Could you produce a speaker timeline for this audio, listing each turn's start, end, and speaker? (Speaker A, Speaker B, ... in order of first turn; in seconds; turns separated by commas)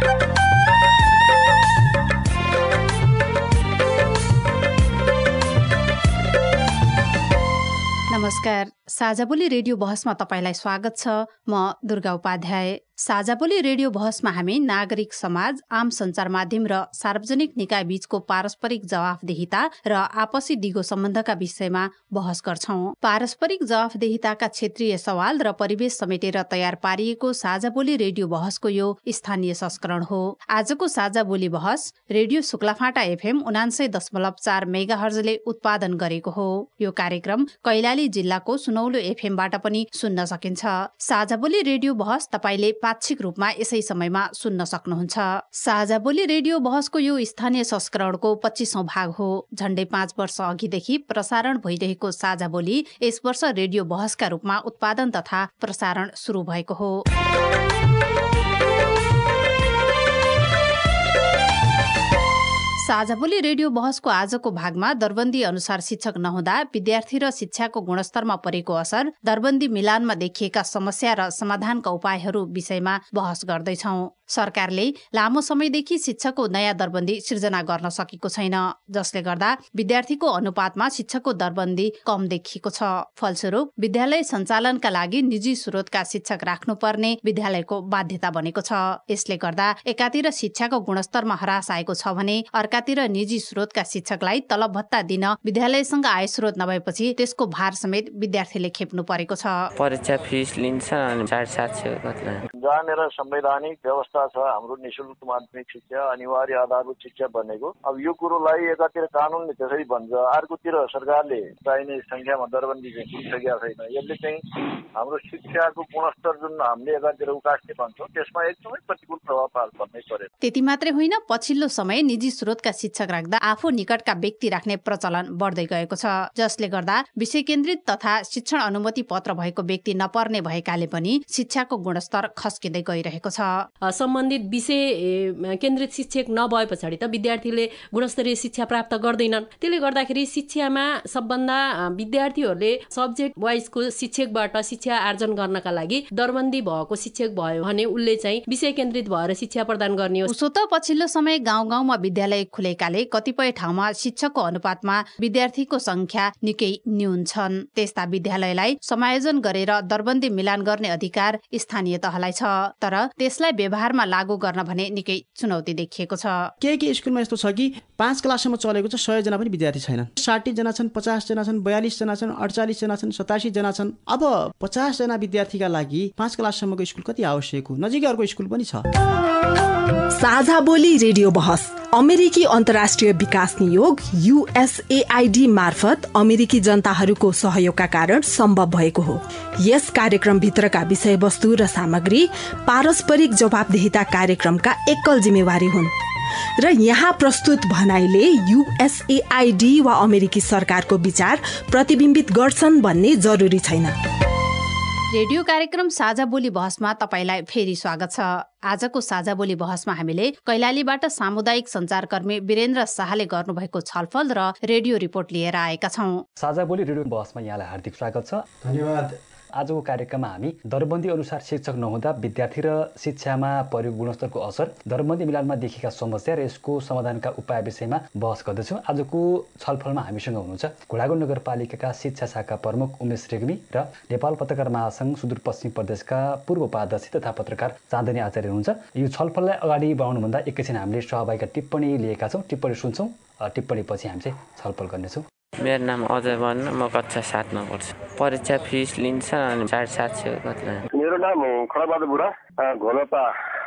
Speaker A: 8.1-57.0, Speaker A: 62.8-99.7, Speaker B: 99.8-102.4, Speaker C: 102.6-120.3, Speaker A: 120.4-133.7, Speaker D: 133.8-150.3, Speaker A: 150.3-166.5, Speaker E: 166.6-178.8, Speaker F: 180.1-195.9, Speaker F: 196.6-203.9, Speaker A: 205.1-216.2, Speaker G: 216.4-218.4, Speaker E: 218.6-219.2, Speaker G: 219.6-245.2, Speaker B: 245.6-250.8, Speaker H: 250.9-253.3